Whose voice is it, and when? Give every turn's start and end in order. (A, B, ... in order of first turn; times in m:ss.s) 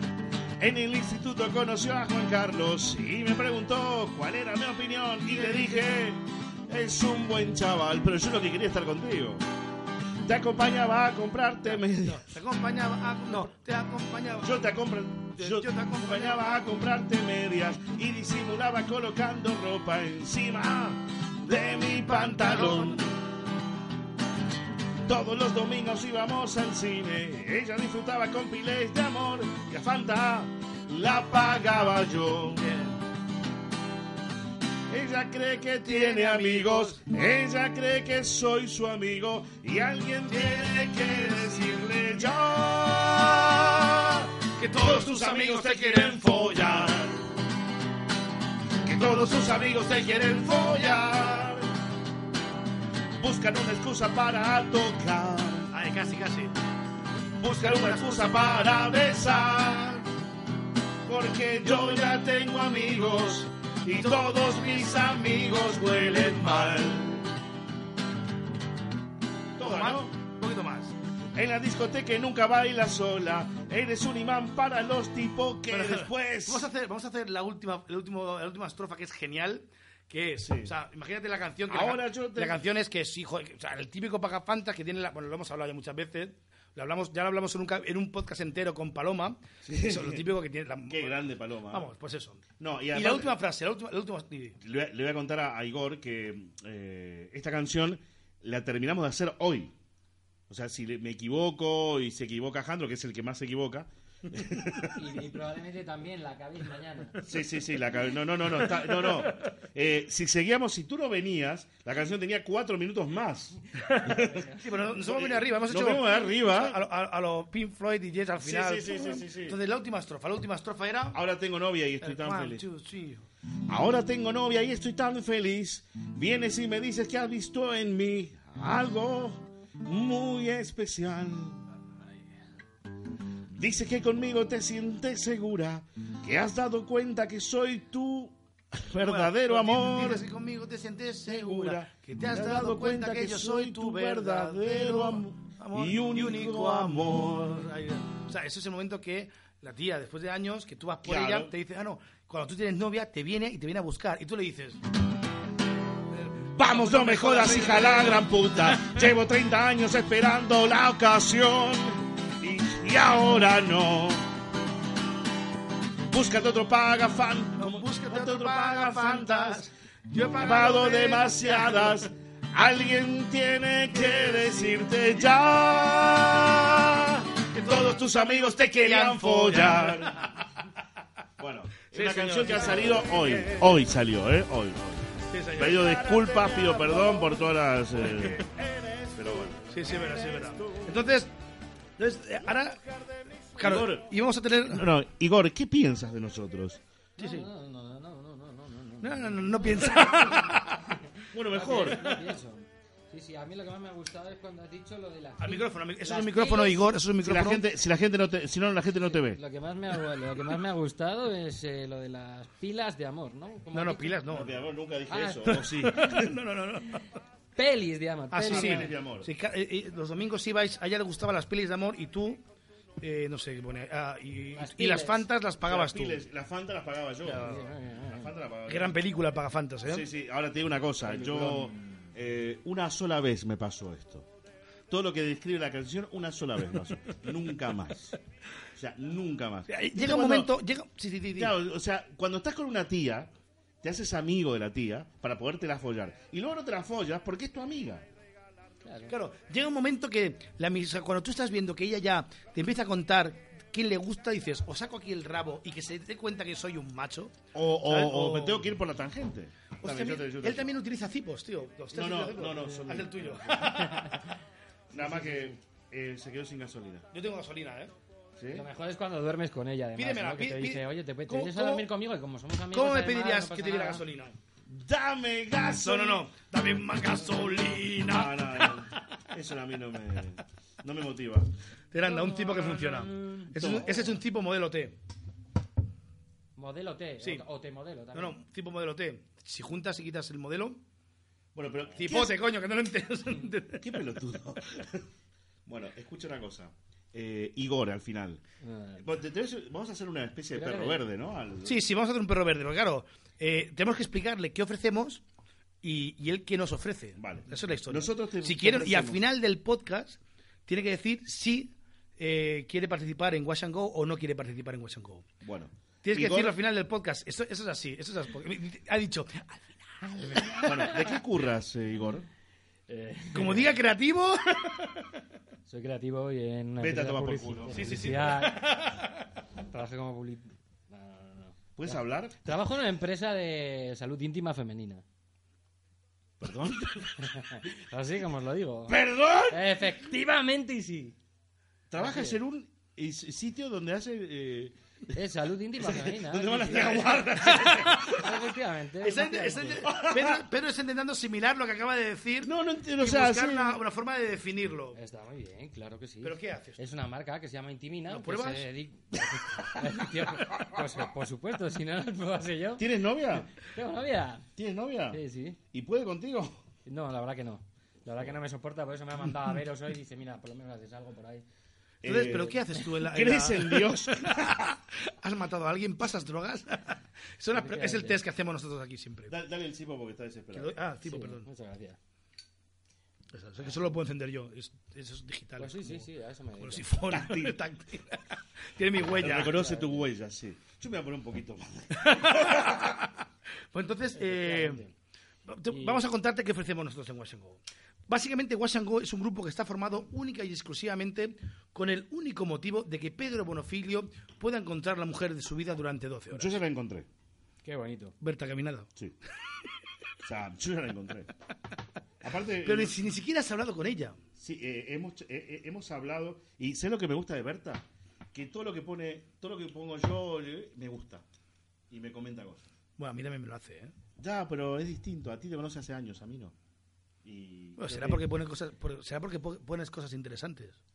0:00.6-0:09.4 A
0:05.3-0:06.0 B
0:10.2-0:12.3 A
0:11.7-0:14.6 B
0:14.4-0:23.2 A
0:15.4-0:16.7 B
0:22.1-0:23.1 B
0:25.0-0:32.7 A
0:32.6-0:33.0 B
0:34.9-0:47.2 A
0:35.8-0:37.0 B
0:40.3-0:41.8 B
0:44.6-0:47.0 B
0:48.8-0:51.7 A
0:53.2-0:55.7 A
0:55.7-0:56.6 B
0:57.4-1:00.0 A
0:57.4-0:58.6 B
1:01.0-1:07.3 A
1:01.7-1:02.1 B
1:04.0-1:04.5 B
1:09.6-1:10.1 A
1:09.6-1:11.0 B
1:11.4-1:16.7 A
1:15.7-1:34.6 B
1:20.4-1:20.7 A
1:21.7-1:22.6 A
1:29.6-1:30.2 A
1:30.9-1:31.9 A
1:32.6-1:33.4 A
1:34.6-1:39.7 A
1:40.5-1:45.2 A
1:44.9-1:47.3 C
1:47.2-1:56.8 A
1:48.6-1:49.3 B
1:53.8-2:01.2 B
1:54.2-1:54.6 C
1:58.4-1:59.6 A
2:01.1-2:02.6 A
2:02.0-2:03.3 B
2:03.7-2:11.6 A
2:13.5-2:20.2 A
2:19.0-2:34.8 B
2:21.3-2:27.7 A
2:31.0-2:31.5 A
2:36.6-2:38.9 B
2:36.6-2:44.3 A
2:46.1-2:49.7 A
2:47.6-2:52.1 B
2:50.4-3:00.4 A
2:54.0-2:54.8 B
2:57.5-3:00.4 B
3:01.4-3:11.1 A
3:01.9-3:03.7 B
3:05.3-3:07.4 B
3:08.0-3:08.5 B
3:09.7-3:11.3 B
3:12.0-3:12.8 B
3:13.6-3:14.9 B
3:13.6-3:14.1 A
3:14.7-3:16.8 A
3:17.2-3:17.5 B
3:17.2-3:19.9 C
3:19.0-3:21.0 B
3:21.3-3:22.1 A
3:21.5-3:26.9 C
3:25.4-3:27.6 B
3:27.2-3:29.4 A
3:29.1-3:34.2 C
3:33.7-3:34.6 B
3:34.3-3:36.4 A
3:35.1-3:35.6 C
3:35.5-3:37.1 B
3:37.6-3:38.9 C
3:38.3-3:42.4 B
3:38.5-3:39.3 A
3:43.0-3:46.2 B
3:44.6-3:45.3 C
3:45.6-3:49.0 A
3:47.3-3:47.6 B
3:47.3-3:48.3 C
3:48.7-3:50.1 B
3:49.9-3:54.3 A
3:51.1-3:52.1 C
3:54.9-3:58.2 A
3:58.7-4:00.5 A
3:59.7-4:01.6 B
4:01.4-4:03.3 A
4:03.8-4:08.1 A
4:08.8-4:09.1 C
4:09.1-4:18.7 B
4:17.5-4:20.7 A
4:19.8-4:24.3 B
4:21.9-4:23.8 A
4:23.6-4:24.3 C
4:24.9-4:27.1 A
4:25.0-4:25.5 C
4:27.1-4:27.9 B
4:28.4-4:28.7 A
4:28.5-4:34.0 C
4:30.0-4:31.9 B
4:32.7-4:34.4 B
4:34.7-4:36.3 A
4:35.7-4:39.0 B
4:37.2-4:41.5 A
4:41.9-4:45.0 B
4:42.0-4:44.0 C
4:43.6-4:44.1 A
4:46.6-4:48.4 C
4:48.1-4:50.8 B
4:51.6-4:52.4 A
4:52.0-4:54.0 B
4:53.8-4:55.1 A
4:55.7-4:58.4 A
4:58.6-4:59.1 C
4:59.0-5:01.8 A
5:00.5-5:01.0 C
5:01.6-5:05.2 B
5:05.8-5:15.3 B
5:07.2-5:09.2 A
5:15.4-5:16.6 A
5:16.0-5:21.1 B
5:20.2-5:21.0 C
5:20.6-5:22.3 A
5:22.9-5:23.7 C
5:23.3-5:25.1 B
5:25.7-5:28.7 C
5:26.8-5:28.4 A
5:27.7-5:29.2 B
5:29.7-5:35.0 C
5:31.8-5:32.6 A
5:36.4-5:37.3 A
5:37.2-5:41.2 C
5:38.9-5:39.8 A
5:41.9-5:45.1 A
5:42.0-5:42.4 C
5:45.1-5:47.3 C
5:45.8-5:48.3 A
5:46.7-5:48.2 B
5:47.9-5:49.8 C
5:49.0-5:55.0 B
5:49.8-5:50.4 A
5:52.4-5:53.8 A
5:54.9-6:02.9 C
5:56.2-5:56.8 B
5:58.1-5:58.7 B
6:02.8-6:03.5 A
6:03.6-6:04.5 C
6:04.6-6:05.2 A
6:05.1-6:05.6 C
6:05.7-6:06.6 A
6:06.9-6:11.4 C
6:12.0-6:14.7 A
6:12.0-6:19.4 B
6:17.5-6:18.2 C
6:19.3-6:20.7 A
6:20.5-6:21.5 B
6:21.0-6:22.0 C
6:23.3-6:26.1 B
6:25.6-6:26.9 C
6:26.6-6:29.6 B
6:27.1-6:27.6 A
6:29.2-6:32.9 A
6:29.4-6:30.1 C
6:31.9-6:33.2 B
6:33.7-6:34.8 B
6:34.2-6:34.9 C
6:35.5-6:46.6 B
6:35.7-6:36.0 C
6:46.3-6:47.1 A
6:47.6-6:48.2 C
6:48.2-6:48.9 B
6:50.2-6:51.3 A
6:52.2-6:53.0 A
6:52.6-6:54.2 B
6:54.4-7:01.2 A
7:01.9-7:02.6 A
7:03.0-7:03.9 B
7:04.2-7:06.5 A
7:07.2-7:08.2 A
7:07.8-7:10.8 B